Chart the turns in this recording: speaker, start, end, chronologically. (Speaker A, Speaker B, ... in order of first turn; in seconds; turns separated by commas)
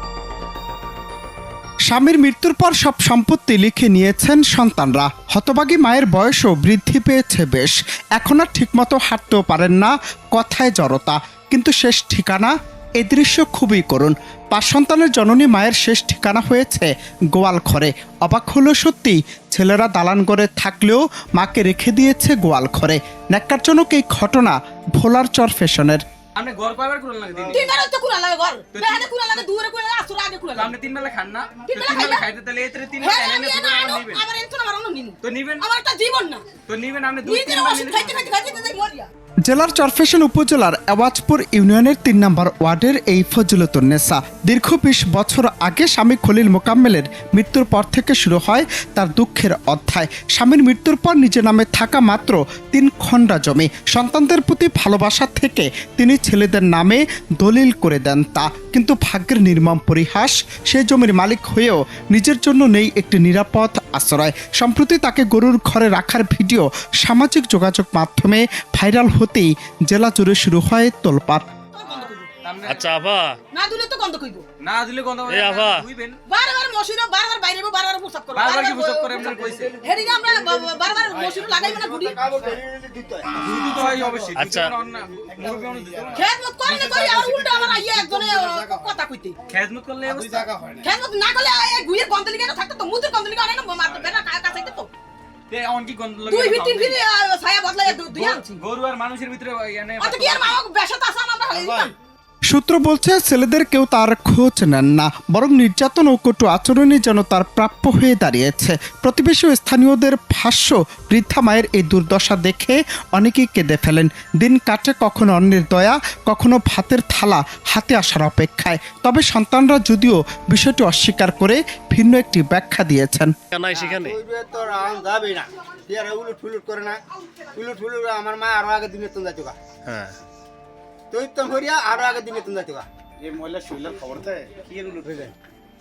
Speaker A: 1.9-26.0, Speaker B: 26.3-27.7, Speaker C: 27.5-30.7, Speaker B: 28.7-29.1, Speaker B: 30.5-34.2, Speaker C: 31.6-32.2, Speaker C: 33.0-36.4, Speaker B: 35.2-35.7, Speaker B: 36.7-38.4, Speaker C: 37.2-39.1, Speaker A: 39.5-71.5, Speaker C: 71.7-72.3, Speaker B: 72.4-72.9, Speaker D: 72.7-73.3, Speaker C: 73.5-74.5, Speaker B: 74.6-76.2, Speaker D: 75.3-75.8, Speaker C: 76.2-82.2, Speaker B: 78.3-79.7, Speaker E: 81.3-83.5, Speaker B: 83.3-87.8, Speaker D: 84.3-84.7, Speaker C: 86.1-89.4, Speaker E: 88.0-88.6, Speaker B: 89.5-90.8, Speaker E: 90.1-90.4, Speaker C: 90.8-94.9, Speaker B: 93.9-94.2, Speaker B: 95.5-97.0, Speaker C: 96.3-98.6, Speaker B: 97.8-100.6, Speaker C: 100.0-101.9, Speaker B: 101.5-101.9, Speaker A: 102.5-123.3, Speaker D: 123.5-124.2, Speaker E: 123.7-129.6, Speaker D: 129.8-130.2, Speaker E: 131.1-132.9, Speaker B: 133.2-134.7, Speaker E: 134.7-135.3